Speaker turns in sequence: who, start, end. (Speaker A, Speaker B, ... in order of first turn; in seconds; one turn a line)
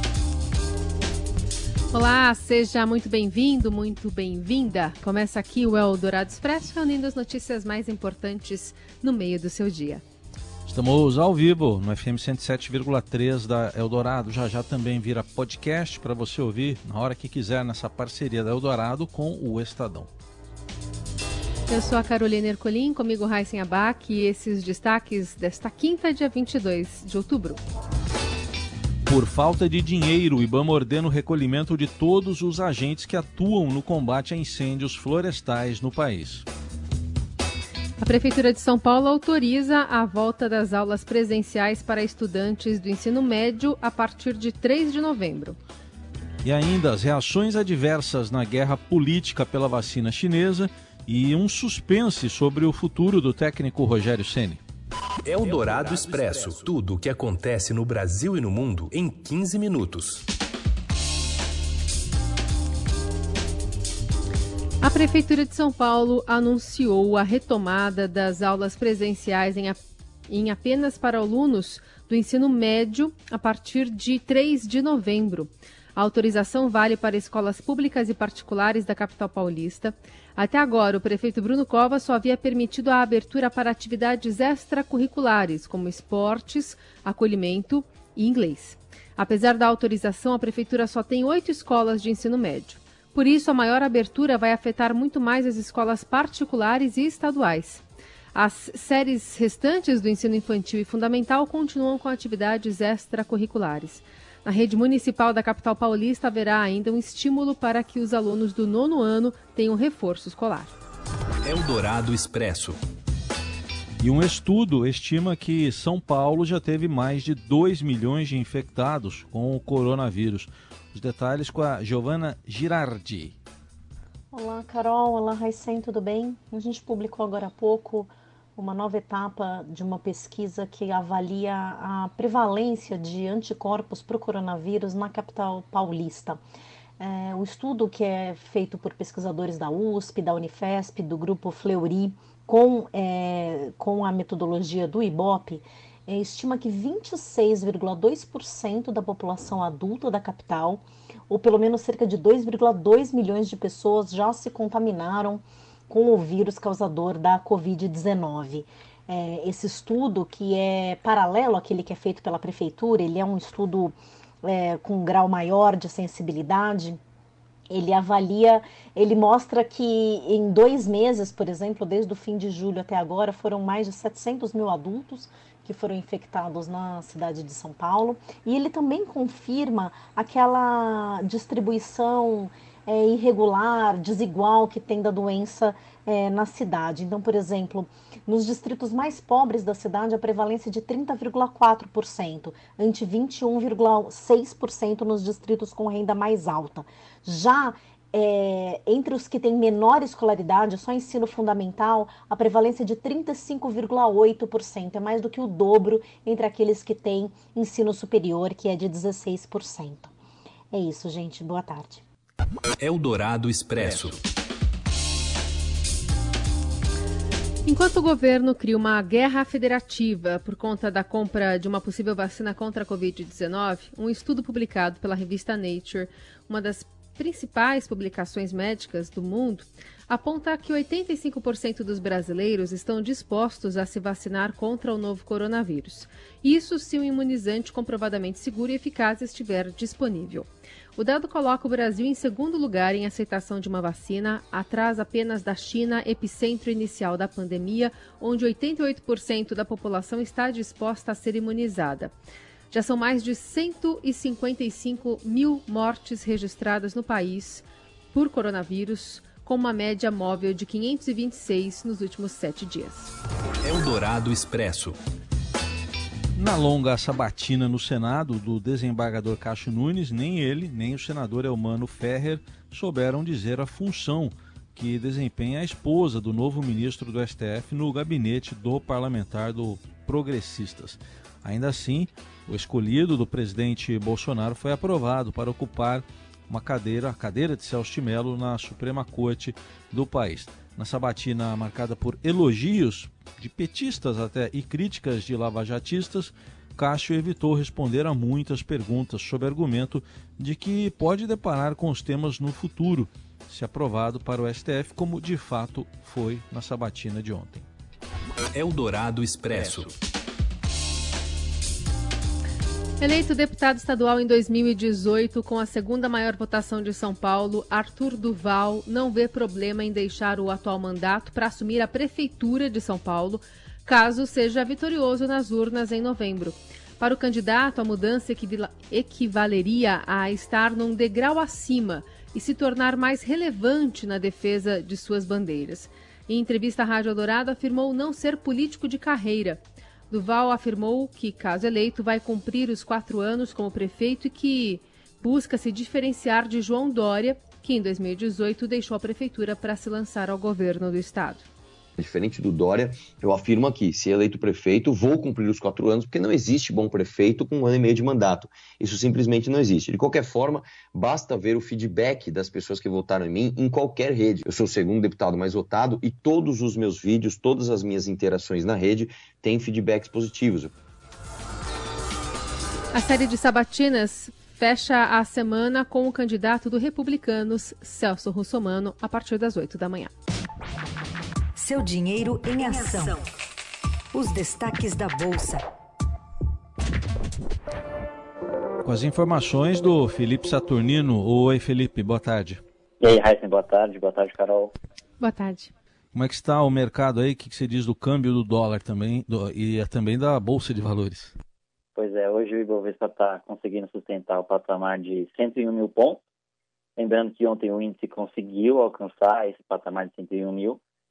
Speaker A: 1.9-10.0
Speaker B: 10.7-20.1
Speaker A: 21.7-27.6
Speaker B: 29.1-36.4
Speaker A: 38.0-45.6
Speaker B: 46.4-54.6
Speaker C: 55.2-60.2
Speaker A: 64.8-97.8
Speaker A: 98.3-110.7
Speaker C: 111.4-112.8
Speaker B: 114.0-123.3
Speaker D: 124.3-136.4
Speaker D: 137.0-167.0
Speaker D: 167.7-210.1
Speaker D: 210.7-212.0
Speaker C: 212.8-214.2
Speaker A: 217.7-252.1
Speaker A: 252.7-263.1
Speaker C: 263.6-265.0
Speaker B: 266.3-307.6
Speaker C: 308.5-309.9
Speaker A: 313.0-351.4
Speaker E: 352.0-370.7
Speaker A: 372.9-380.1
Speaker F: 381.6-383.2
Speaker F: 384.1-385.6
Speaker B: 388.8-392.6
Speaker G: 393.0-394.7
Speaker A: 395.2-395.7
Speaker B: 396.1-401.3
Speaker G: 401.9-406.2
Speaker G: 407.0-410.8